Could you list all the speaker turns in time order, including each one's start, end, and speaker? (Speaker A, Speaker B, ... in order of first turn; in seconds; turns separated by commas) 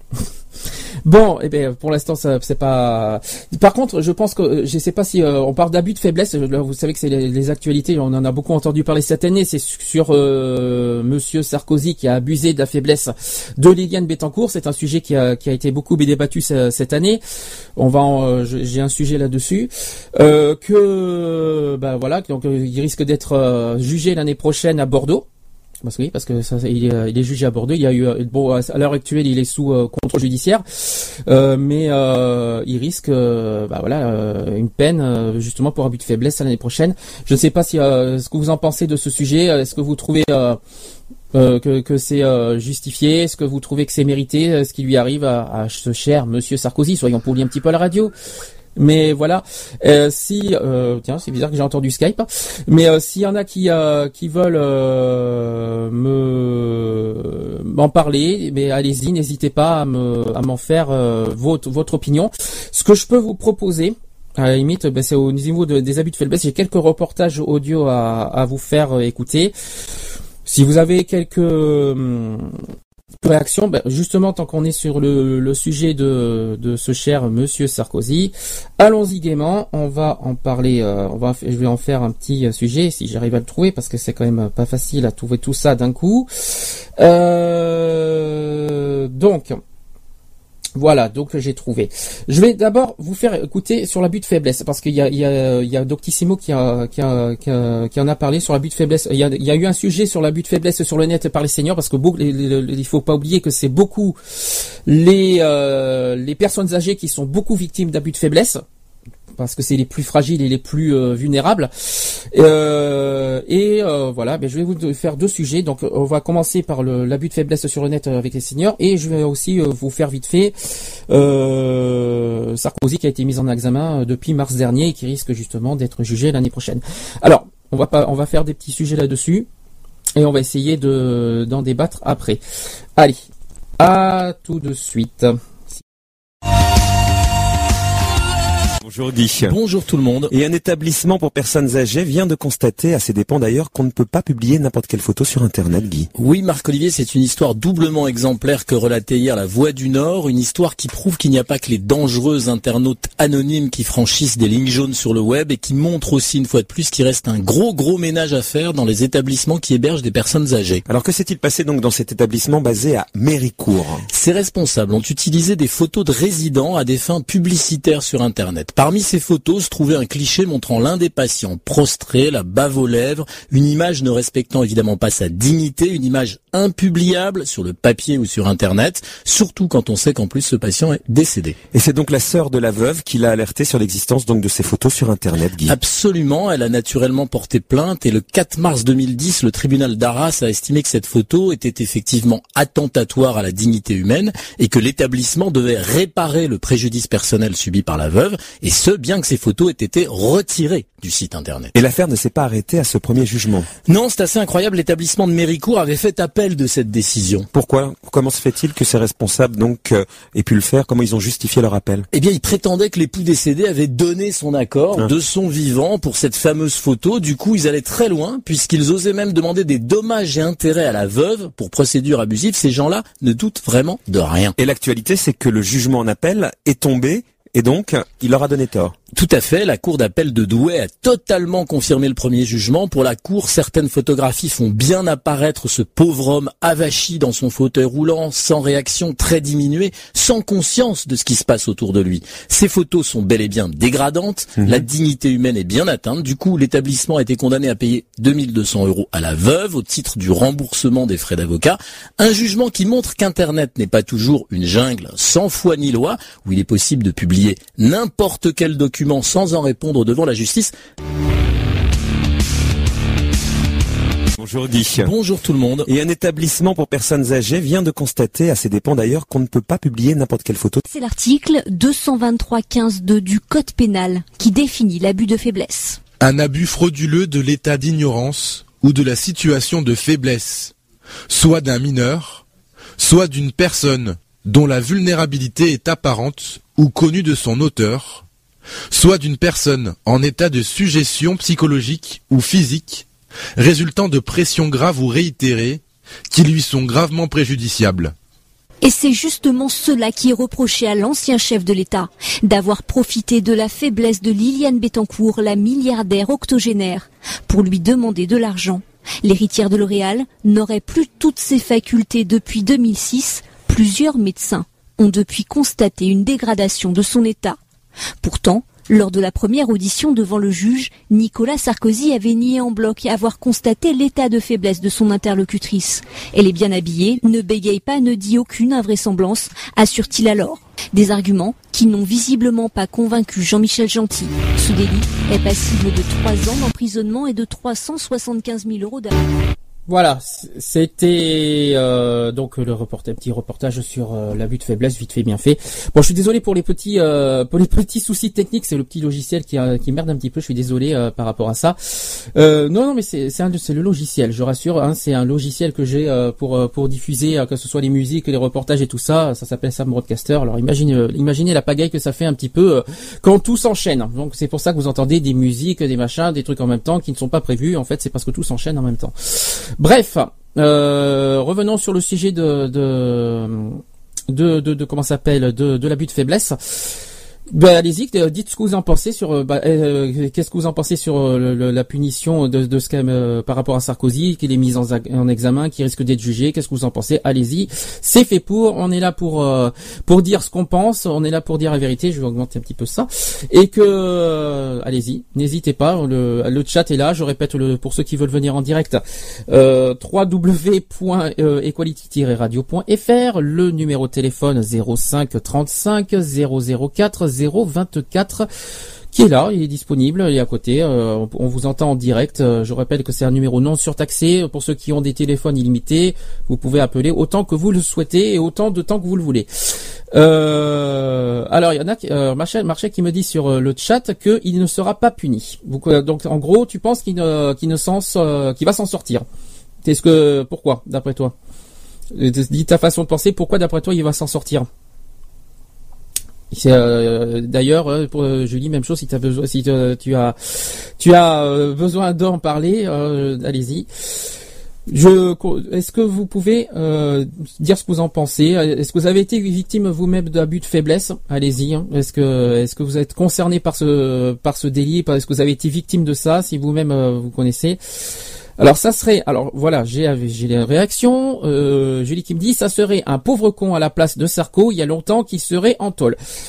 Speaker A: 1.1-17.2, Speaker A: 17.8-25.2, Speaker A: 25.8-30.6, Speaker A: 31.3-40.6, Speaker A: 41.3-48.1, Speaker A: 48.8-69.5, Speaker A: 70.4-72.6, Speaker A: 73.2-89.6, Speaker A: 90.8-108.6, Speaker A: 109.4-111.7, Speaker A: 112.3-120.5, Speaker A: 121.1-129.5, Speaker A: 130.2-132.4, Speaker A: 133.8-135.3, Speaker B: 138.8-139.6, Speaker C: 139.4-140.3, Speaker B: 140.3-146.1, Speaker C: 146.2-160.8, Speaker B: 160.9-164.0, Speaker C: 164.1-181.6, Speaker B: 181.7-185.8, Speaker C: 185.6-201.7, Speaker B: 201.7-203.7, Speaker C: 203.9-207.5, Speaker B: 207.5-212.1, Speaker C: 212.1-224.5, Speaker B: 224.6-228.9, Speaker C: 229.1-260.7, Speaker B: 264.4-265.1, Speaker C: 265.0-265.9, Speaker B: 265.9-270.8, Speaker D: 270.9-276.0, Speaker E: 276.2-280.7, Speaker E: 281.3-282.4, Speaker E: 283.0-288.2, Speaker E: 288.9-293.1, Speaker E: 293.6-298.1, Speaker D: 298.8-317.6, Speaker D: 318.2-339.1, Speaker A: 339.9-351.8, Speaker A: 352.3-376.9, Speaker A: 377.5-408.5, Speaker A: 409.1-419.5, Speaker A: 420.1-429.2, Speaker A: 429.8-431.3, Speaker A: 432.1-434.7, Speaker A: 436.5-443.9, Speaker A: 444.9-457.8, Speaker A: 458.6-466.2